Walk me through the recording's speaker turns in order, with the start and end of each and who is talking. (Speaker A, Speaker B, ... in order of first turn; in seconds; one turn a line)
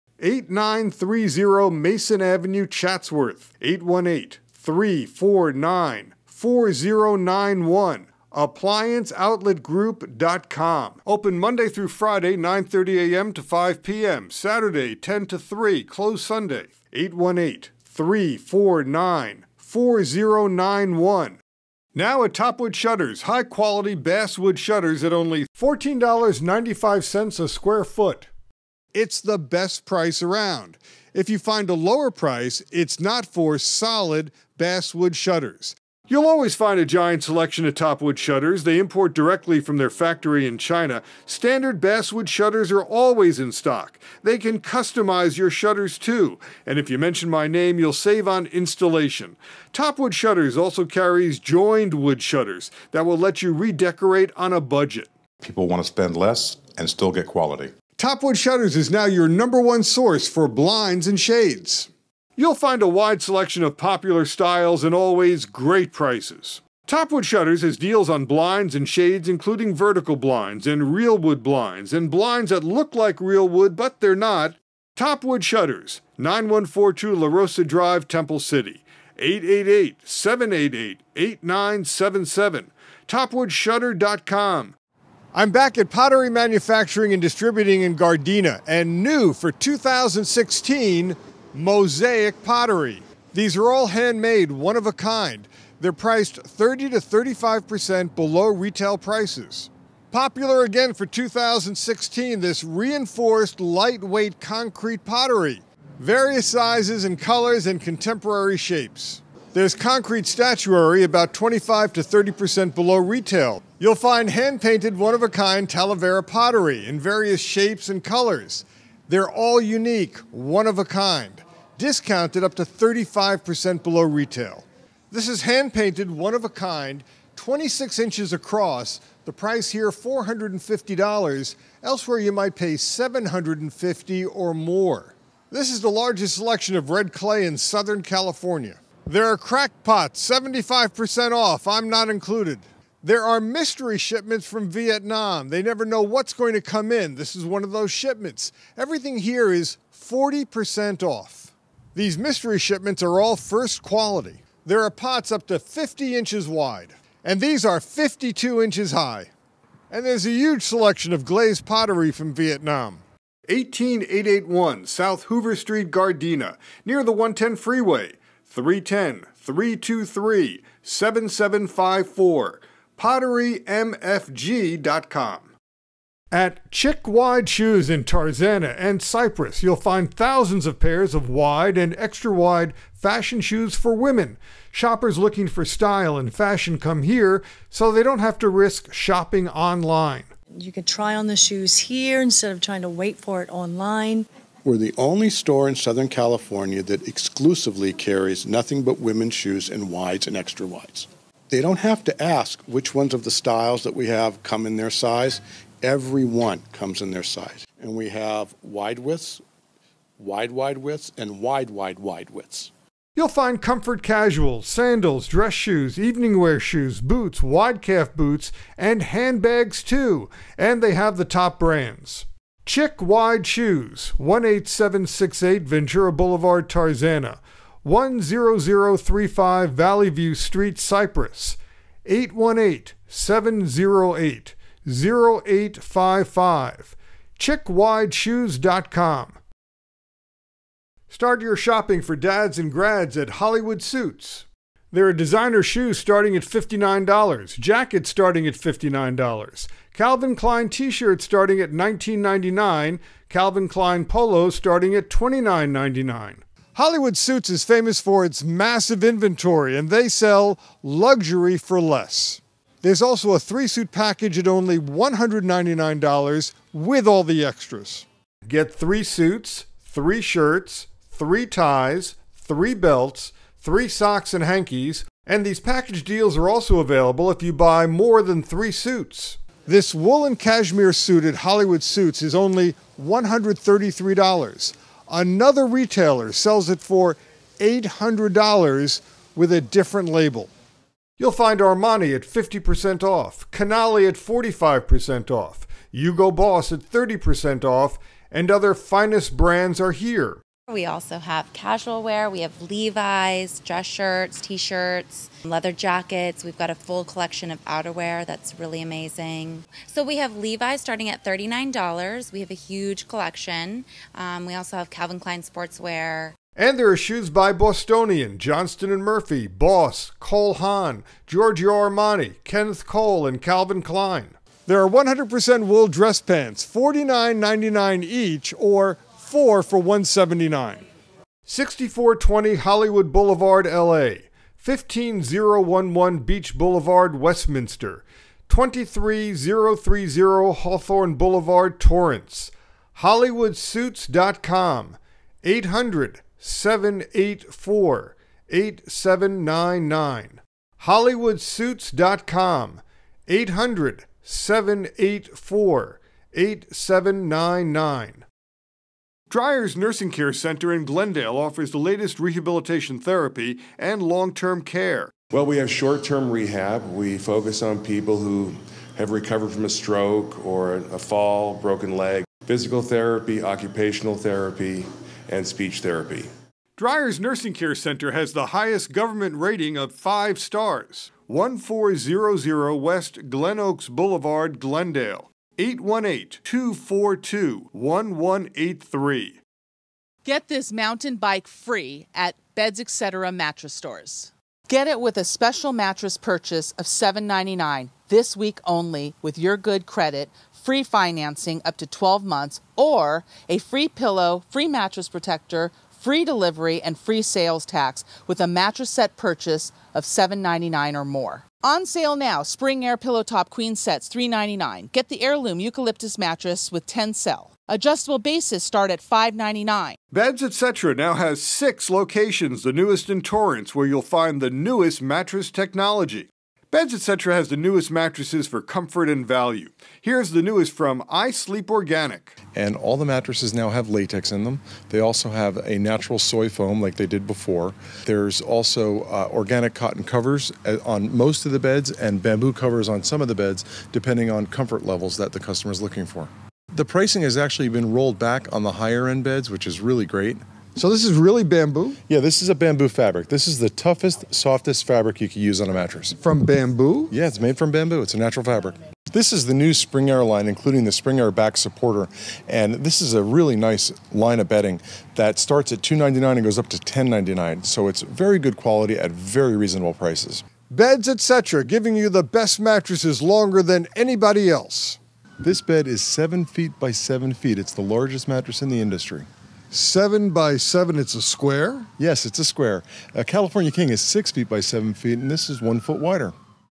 Speaker A: 0.2-21.4
Speaker A: 21.9-28.3
Speaker A: 28.9-55.1
Speaker B: 55.4-57.7
Speaker A: 58.0-84.8
Speaker A: 85.3-159.3
Speaker A: 159.9-175.5
Speaker A: 176.3-190.3
Speaker C: 190.5-194.3
Speaker D: 194.6-209.4
Speaker D: 210.2-212.7
Speaker A: 213.2-239.4
Speaker A: 241.1-290.5
Speaker A: 291.2-300.4
Speaker E: 300.7-316.3
Speaker A: 316.6-330.8
Speaker A: 331.5-358.2
Speaker A: 359.3-365.1
Speaker F: 365.3-376.3
Speaker A: 376.8-389.4
Speaker G: 390.2-420.0
Speaker A: 420.1-432.4
Speaker H: 432.5-450.4
Speaker A: 450.8-452.0
Speaker H: 452.1-456.2
Speaker A: 456.2-457.1
Speaker H: 457.1-470.4
Speaker A: 470.7-475.0
Speaker H: 475.4-479.3
Speaker A: 479.7-481.9
Speaker H: 482.0-486.3